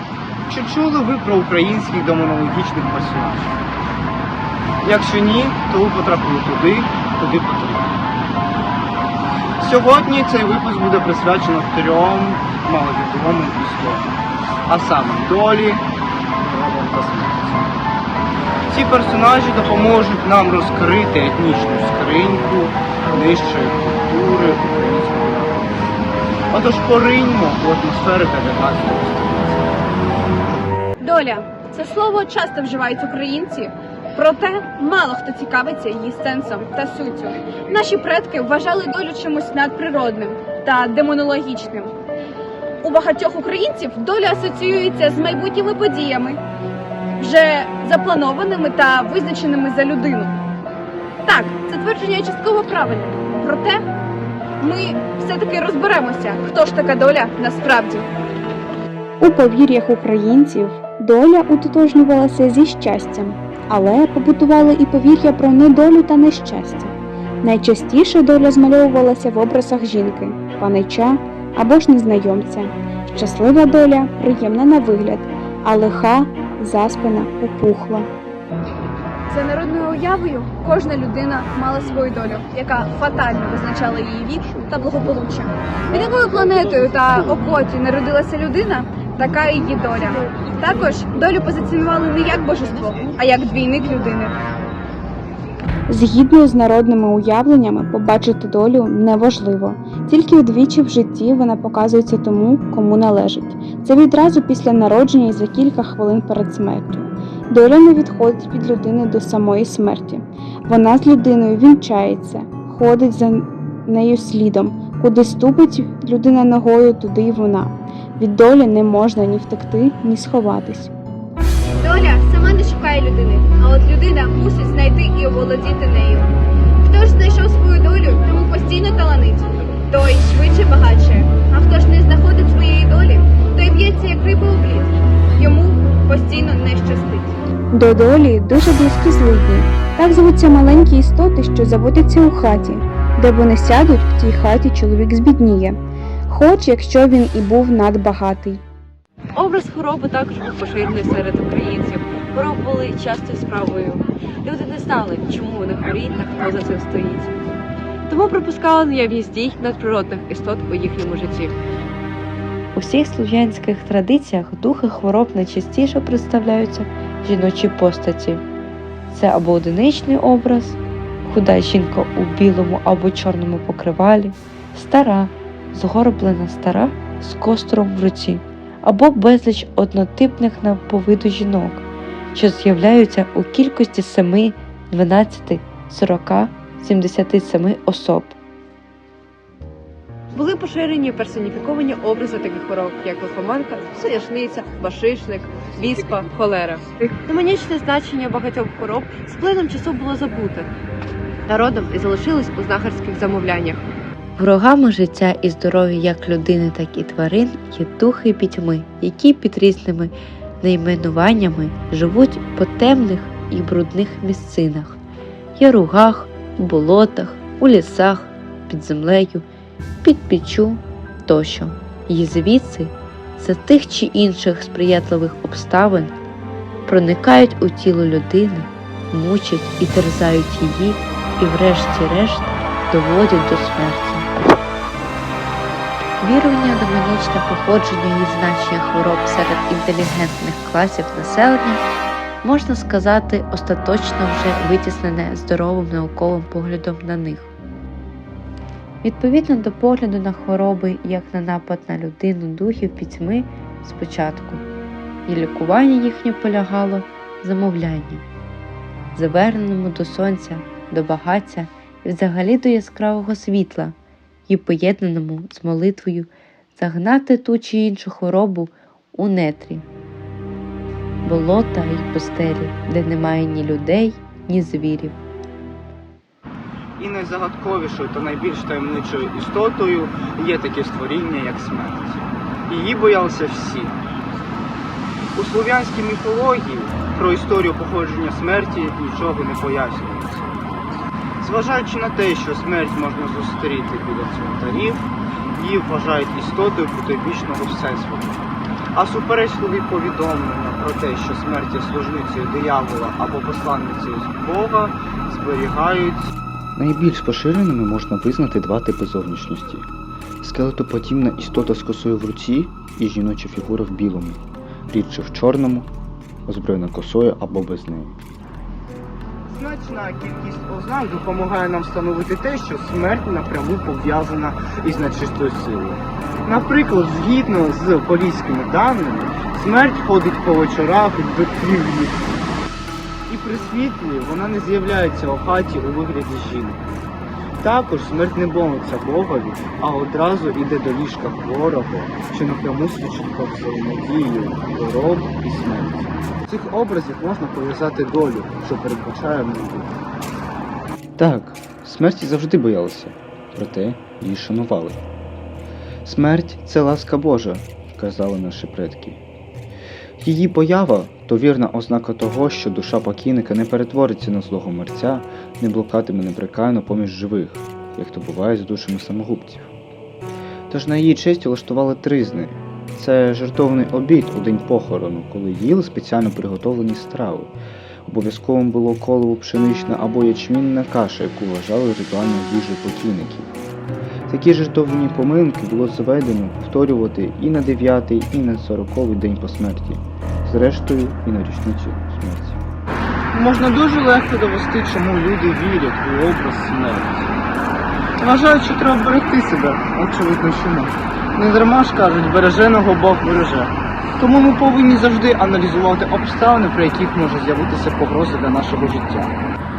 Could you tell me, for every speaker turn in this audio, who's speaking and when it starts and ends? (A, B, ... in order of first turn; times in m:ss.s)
0:00.5-0:03.6 A
0:04.8-0:07.9 A
0:09.6-0:14.1 A
0:14.7-0:15.8 A
0:16.4-0:17.8 A
0:18.7-0:29.9 A
0:31.0-0:41.9 B
0:42.8-0:46.4 B
0:47.2-0:50.3 B
0:51.3-0:53.8 B
0:54.6-0:58.1 B
0:59.2-1:06.9 C
1:07.4-1:18.1 C
1:19.3-1:34.3 B
1:35.9-2:00.9 C
2:01.8-2:06.3 B
2:06.8-2:17.4 B
2:17.7-2:28.6 C
2:29.4-2:37.3 D
2:38.1-2:41.5 D
2:42.8-2:48.4 E
2:49.1-3:08.4 E
3:10.3-3:20.7 D
3:21.5-3:23.8 D
3:24.4-3:35.0 E
3:35.6-3:39.4 E
3:40.0-3:46.1 E
3:46.9-3:54.2 E
3:56.2-4:01.8 E
4:02.4-4:07.5 E
4:09.0-4:14.6 E
4:15.3-4:18.2 E
4:19.2-4:24.0 E
4:24.5-4:29.8 E
4:31.2-4:35.2 E
4:37.0-4:44.0 A
4:45.4-4:50.7 A
4:51.4-4:58.4 A
4:58.9-5:06.3 A
5:06.8-5:09.9 F
5:10.4-5:15.9 F
5:16.5-5:18.2 F
5:19.5-5:32.3 A
5:33.3-5:36.8 A
5:37.6-5:50.0 A
5:51.2-5:55.0 F
5:56.0-5:59.2 F
6:00.2-6:09.7 F
6:10.7-6:17.6 F
6:18.1-6:23.6 F
6:24.3-6:32.6 F
6:33.3-6:37.4 A
6:38.2-6:49.4 A